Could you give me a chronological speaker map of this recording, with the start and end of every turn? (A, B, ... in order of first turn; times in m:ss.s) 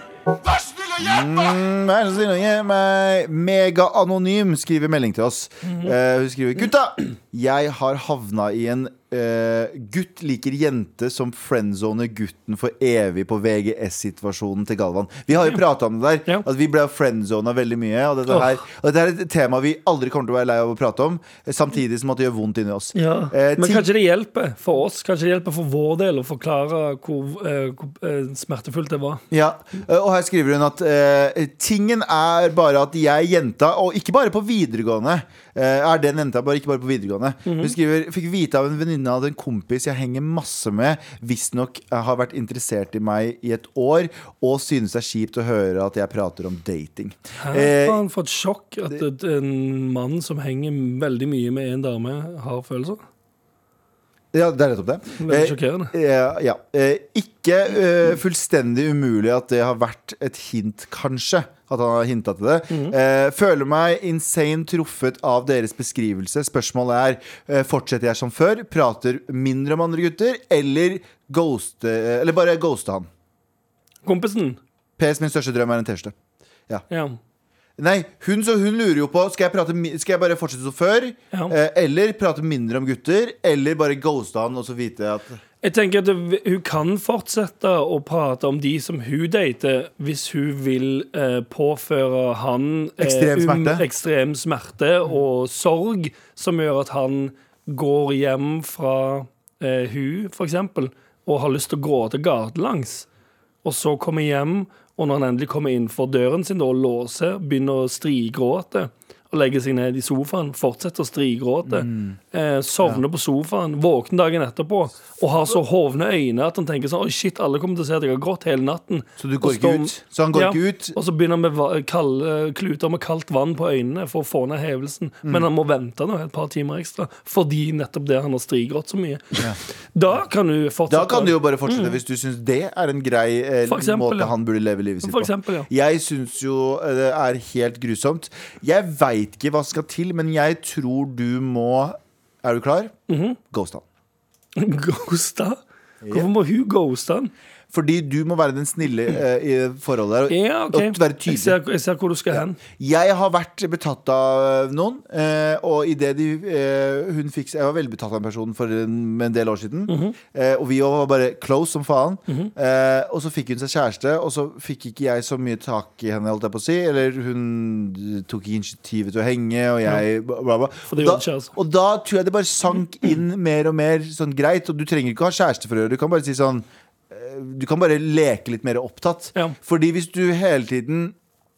0:00.9-0:23.9 A
0:18.3-0:18.6 B
0:22.9-0:29.2 B
0:29.3-0:48.0 A
0:37.4-0:37.7 B
0:47.4-0:53.0 B
0:54.3-1:13.1 A
0:55.2-0:55.9 B
1:02.7-1:02.9 B
1:14.0-1:14.6 B
1:15.0-1:16.1 A
1:16.9-1:17.2 B
1:17.8-1:25.4 A
1:25.6-1:43.0 B
1:33.0-1:33.8 A
1:43.6-2:12.0 B
1:51.6-1:52.2 A
1:59.2-2:01.0 A
2:10.9-2:23.8 A
2:13.7-2:14.3 B
2:15.0-2:15.7 B
2:23.1-2:23.4 B
2:24.6-2:25.6 B
2:26.0-2:26.3 A
2:26.1-2:27.3 B
2:27.7-2:31.6 A
2:30.3-2:32.6 B
2:32.3-3:01.2 A
2:39.9-2:40.2 B
2:50.9-2:51.5 B